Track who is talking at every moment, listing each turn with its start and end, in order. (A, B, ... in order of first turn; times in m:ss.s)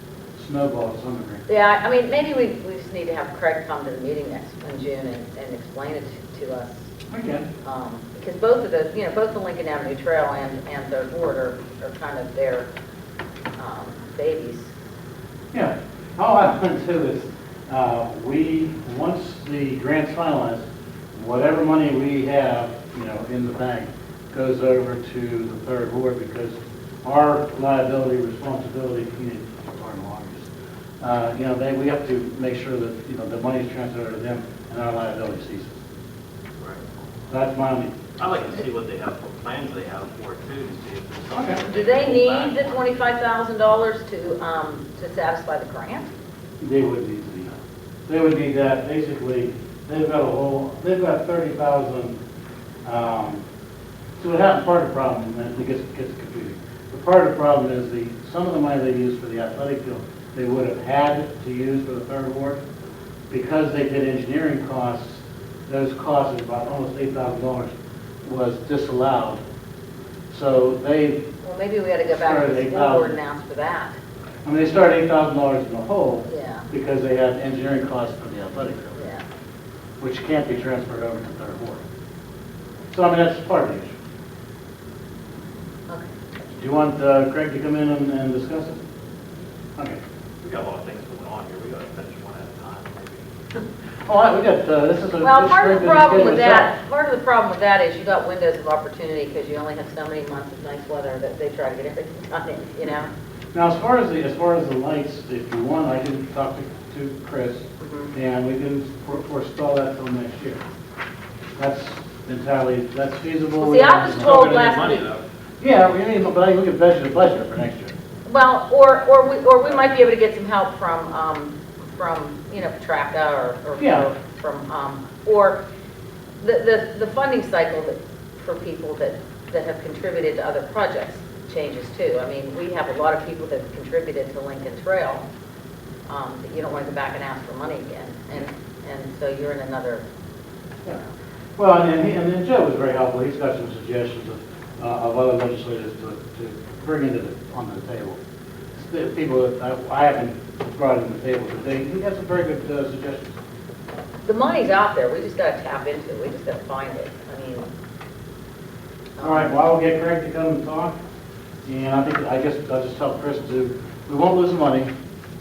0:00.4-0:01.4 A
0:01.5-0:06.8 B
0:07.1-0:07.4 A
0:07.6-0:12.7 B
0:13.6-0:14.7 B
0:15.5-0:30.5 A
0:31.0-0:35.8 A
0:37.3-0:38.0 A
0:38.2-0:42.8 C
0:41.3-0:41.6 A
0:41.7-0:46.1 B
0:46.6-0:47.6 A
0:48.1-0:52.2 A
0:52.8-0:53.4 A
0:54.2-1:02.6 A
1:03.3-1:09.4 A
1:10.3-1:11.2 A
1:11.4-1:14.0 B
1:12.2-1:13.2 A
1:14.4-1:19.0 A
1:16.3-1:16.6 B
1:19.0-1:19.2 B
1:20.0-1:21.8 A
1:22.9-1:23.9 A
1:26.6-1:28.8 A
1:30.4-1:33.6 C
1:34.1-1:36.7 A
1:35.2-1:43.1 B
1:43.5-1:50.6 A
1:47.8-1:48.1 B
1:51.6-1:54.4 A
1:53.6-1:55.1 B
1:54.2-1:55.2 C
1:55.6-1:57.9 A
1:58.2-2:05.6 B
2:03.8-2:04.1 A
2:06.4-2:15.2 B
2:16.1-2:20.0 B
2:21.6-2:28.2 A
2:28.8-2:33.4 A
2:34.2-2:37.7 B
2:39.2-2:39.5 B
2:39.2-2:41.0 A
2:41.6-2:44.9 A